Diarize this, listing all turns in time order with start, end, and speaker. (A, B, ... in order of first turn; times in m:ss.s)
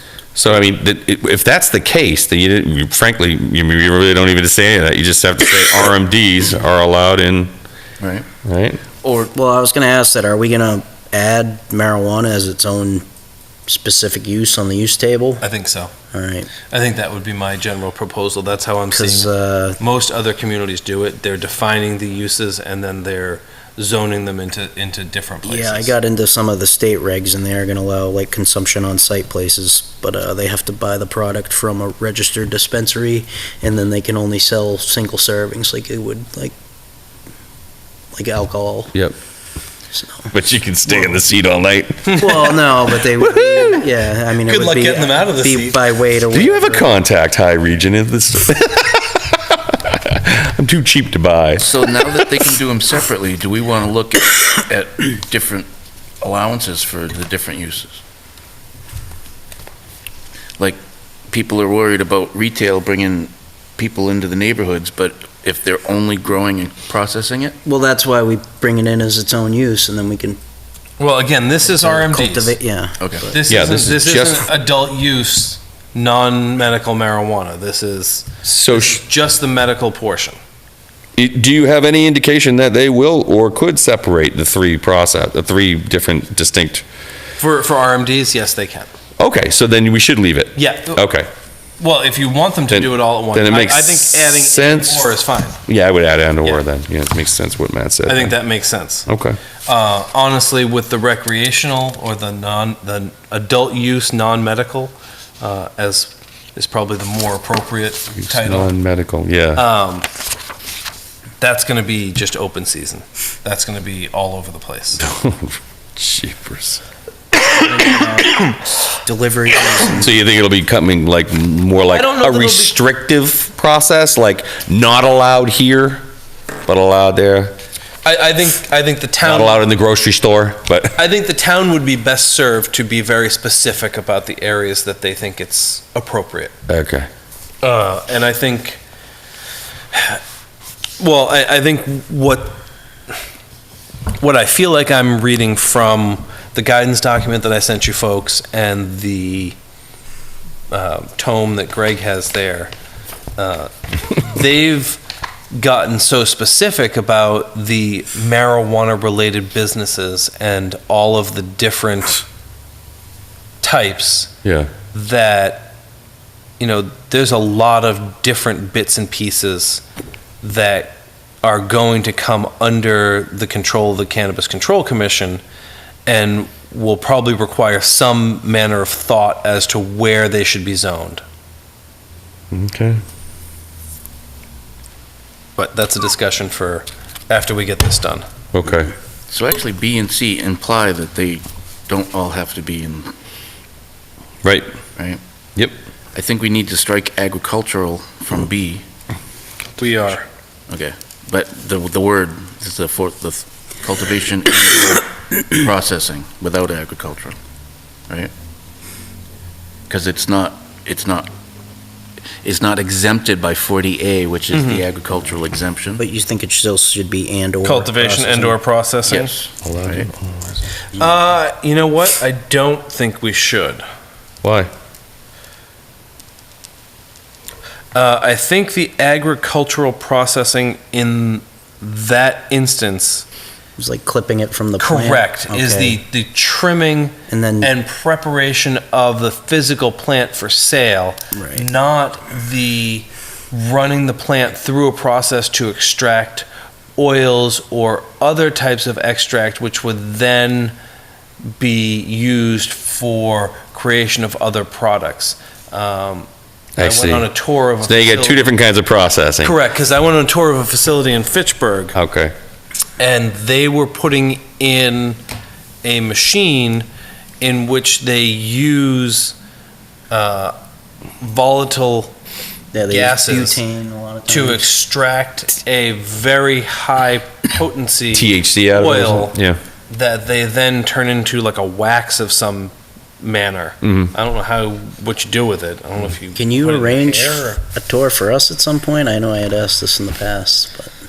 0:00.3-0:07.5 A
0:08.0-0:08.3 B
0:08.4-0:08.8 A
0:09.0-0:09.3 B
0:09.3-0:13.0 C
0:13.7-0:15.4 C
0:15.4-0:15.9 D
0:16.1-0:16.5 C
0:16.7-0:25.9 D
0:18.9-0:19.8 C
0:25.4-0:36.5 C
0:38.1-0:38.9 C
0:39.9-0:40.3 C
0:40.3-0:42.6 A
0:40.9-0:41.2 C
0:42.1-0:42.5 D
0:42.2-0:46.9 C
0:43.4-0:43.8 A
0:44.4-0:46.0 D
0:46.3-0:52.5 A
0:51.6-0:55.7 B
0:56.2-0:58.0 B
1:00.6-1:07.6 B
1:07.6-1:10.4 C
1:11.0-1:12.6 D
1:11.6-1:13.4 C
1:13.0-1:13.3 B
1:13.3-1:20.4 D
1:13.5-1:14.4 A
1:18.4-1:19.0 A
1:21.2-1:26.8 A
1:27.4-1:28.9 D
1:29.2-1:31.3 A
1:30.5-1:31.0 D
1:31.8-1:35.6 D
1:32.7-1:35.1 A
1:35.6-1:38.4 A
1:38.1-1:39.1 D
1:39.0-1:39.4 A
1:39.6-1:48.7 D
1:48.2-1:49.6 A
1:49.5-1:50.1 D
1:51.4-1:55.0 D
1:55.0-1:56.8 A
1:57.4-2:00.2 C
1:59.9-2:06.0 A
2:01.8-2:02.8 D
2:06.6-2:07.6 A
2:08.0-2:09.6 D
2:09.2-2:11.0 A
2:11.0-2:16.5 D
2:16.7-2:17.1 A
2:17.6-2:18.8 D
2:19.9-2:20.2 D
2:21.0-2:22.6 D
2:24.2-2:29.6 D
2:30.7-2:32.7 D
2:33.4-2:35.0 D
2:35.5-2:42.2 D
2:43.6-2:44.3 D
2:44.4-2:44.7 A
2:44.9-2:45.7 D
2:46.6-2:49.8 D
2:50.4-2:55.4 D
2:56.0-3:01.2 D
3:02.5-3:03.0 A
3:05.6-3:08.2 D
3:08.5-3:08.9 A
3:09.3-3:13.1 B
3:16.1-3:18.8 B
3:19.8-3:20.2 D
3:20.7-3:27.4 B
3:29.9-3:31.3 B
3:32.4-3:36.0 B
3:34.5-3:34.8 D
3:36.0-3:38.6 C
3:37.6-3:39.3 D
3:39.0-3:40.1 B
3:39.6-3:40.6 A
3:40.9-3:43.8 D
3:44.4-3:44.7 A
3:47.9-3:53.2 D
3:53.8-3:56.0 C
3:54.8-4:10.7 D
3:57.3-3:57.7 C
4:01.3-4:01.6 C
4:11.6-4:18.5 D
4:16.8-4:17.3 A
4:17.8-4:19.5 A
4:19.4-4:22.0 D
4:21.9-4:22.3 A
4:23.0-4:25.2 D
4:25.8-4:26.9 D
4:27.4-4:29.4 D
4:30.1-4:30.5 D
4:31.2-4:32.1 D
4:32.7-4:34.7 C
4:32.9-4:33.6 D
4:34.3-4:47.6 D
4:38.1-4:39.6 A
4:43.8-4:44.1 A
4:46.3-4:50.9 C